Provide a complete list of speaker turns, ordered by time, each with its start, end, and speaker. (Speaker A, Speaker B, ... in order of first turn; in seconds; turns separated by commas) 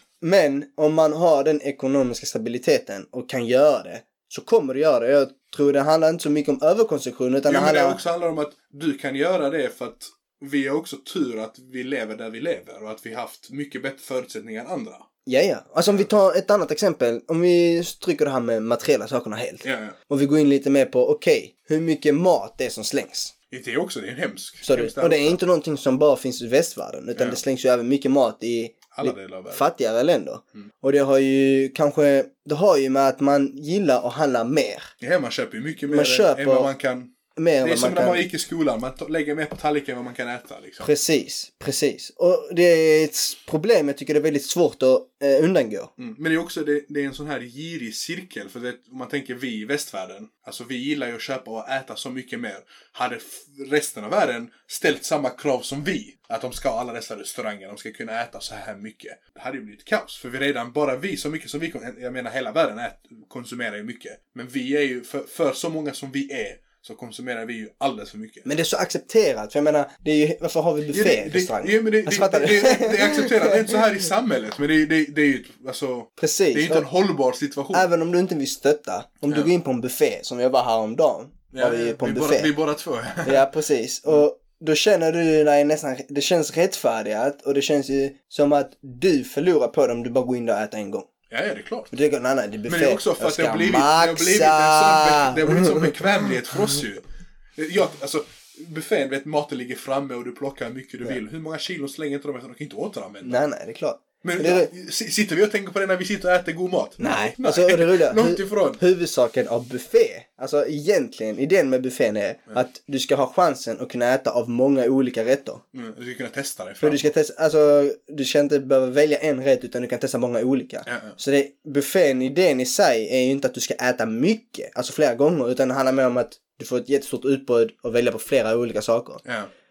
Speaker A: 0.2-8.0, Speaker B: 7.5-15.1, Speaker A: 15.2-23.3, Speaker B: 19.6-19.9, Speaker B: 23.5-25.4, Speaker A: 24.6-34.9, Speaker B: 27.1-27.4, Speaker B: 28.9-29.6, Speaker B: 35.0-40.9, Speaker A: 35.9-36.7, Speaker A: 37.4-38.2, Speaker A: 40.8-45.9, Speaker B: 46.0-68.5, Speaker A: 68.5-73.8, Speaker B: 70.9-77.9, Speaker A: 76.2-76.9, Speaker A: 77.7-82.5, Speaker B: 81.5-83.5, Speaker A: 83.2-91.1, Speaker B: 91.3-91.9, Speaker A: 91.9-95.9, Speaker B: 92.7-97.0, Speaker B: 97.6-103.4, Speaker A: 103.2-104.7, Speaker B: 104.2-108.8, Speaker A: 107.0-115.6, Speaker B: 115.7-117.1, Speaker A: 116.8-129.2, Speaker B: 120.8-121.2, Speaker B: 129.2-129.5